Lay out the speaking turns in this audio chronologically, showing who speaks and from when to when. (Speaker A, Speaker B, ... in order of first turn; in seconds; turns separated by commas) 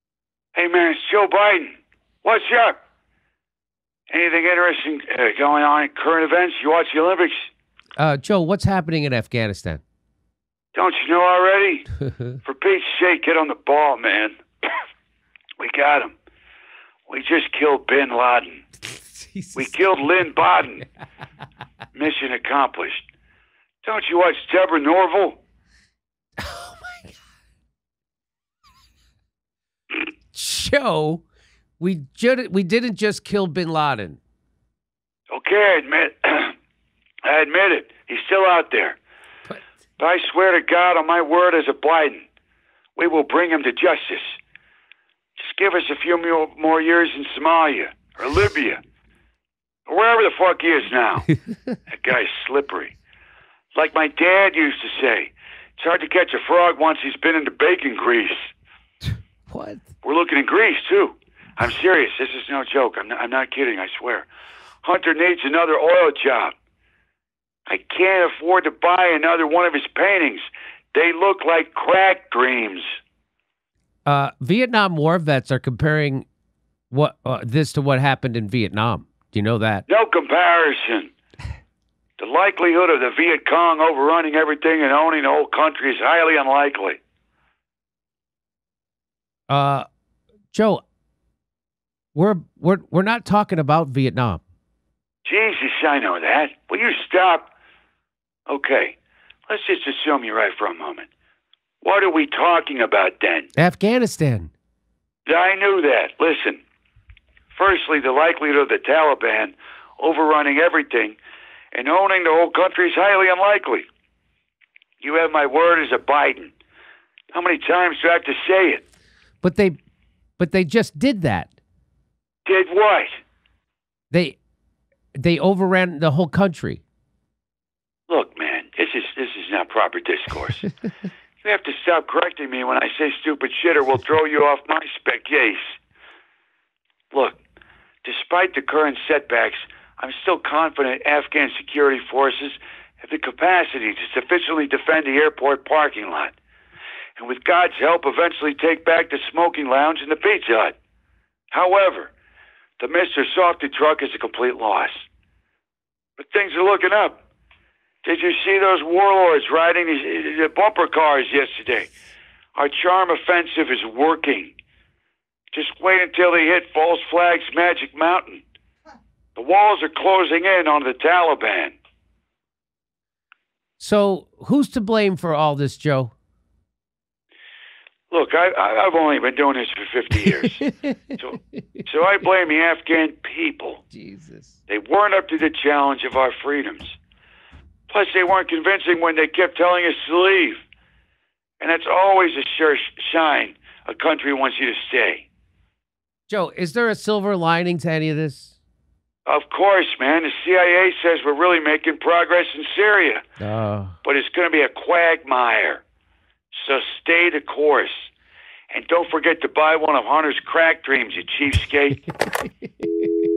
Speaker A: 0.6-1.7, Speaker A: 2.2-2.8, Speaker A: 4.1-7.5, Speaker B: 8.0-9.8, Speaker A: 10.7-11.9, Speaker A: 12.4-14.8, Speaker A: 15.6-16.1, Speaker A: 17.1-18.6, Speaker B: 19.2-19.9, Speaker A: 19.6-20.9, Speaker A: 21.9-23.1, Speaker A: 23.8-25.4, Speaker B: 26.4-27.1, Speaker B: 30.3-31.2, Speaker B: 31.8-34.2, Speaker A: 35.3-36.5, Speaker A: 37.2-39.0, Speaker A: 40.0-42.3, Speaker A: 43.0-44.4, Speaker A: 45.4-48.8, Speaker A: 49.9-51.3, Speaker A: 51.9-52.9, Speaker A: 53.7-58.4, Speaker B: 59.5-59.8, Speaker A: 60.0-64.3, Speaker A: 64.8-66.5, Speaker A: 67.7-72.8, Speaker B: 74.1-76.3, Speaker B: 76.9-79.8, Speaker A: 79.9-81.1, Speaker A: 82.2-87.0, Speaker B: 89.5-89.9, Speaker B: 90.5-90.8, Speaker B: 92.2-94.4, Speaker A: 95.2-97.5, Speaker A: 98.5-99.0, Speaker A: 99.5-101.1, Speaker A: 101.8-103.5, Speaker B: 103.6-104.5, Speaker A: 105.3-106.6, Speaker A: 107.5-111.2, Speaker A: 111.7-113.8, Speaker A: 115.0-116.5, Speaker A: 117.3-118.8, Speaker B: 119.4-119.8, Speaker B: 120.4-121.5, Speaker A: 122.5-123.1, Speaker B: 124.1-124.4, Speaker B: 125.2-126.8, Speaker A: 128.1-130.7, Speaker A: 131.4-135.7, Speaker A: 137.1-137.4, Speaker A: 138.0-146.3, Speaker A: 147.2-150.8, Speaker A: 151.5-152.1, Speaker A: 152.8-155.1, Speaker A: 156.2-157.2, Speaker A: 158.0-161.9, Speaker A: 162.6-164.5, Speaker A: 165.5-168.4, Speaker A: 169.4-171.8, Speaker B: 173.8-176.1, Speaker A: 178.1-180.6, Speaker A: 181.2-183.8, Speaker B: 183.9-184.6, Speaker A: 184.7-187.0, Speaker A: 187.9-190.6, Speaker A: 191.6-195.3, Speaker B: 196.3-198.5, Speaker A: 199.3-203.2, Speaker B: 203.4-204.0, Speaker A: 204.0-205.8, Speaker A: 206.5-208.1, Speaker A: 208.7-212.0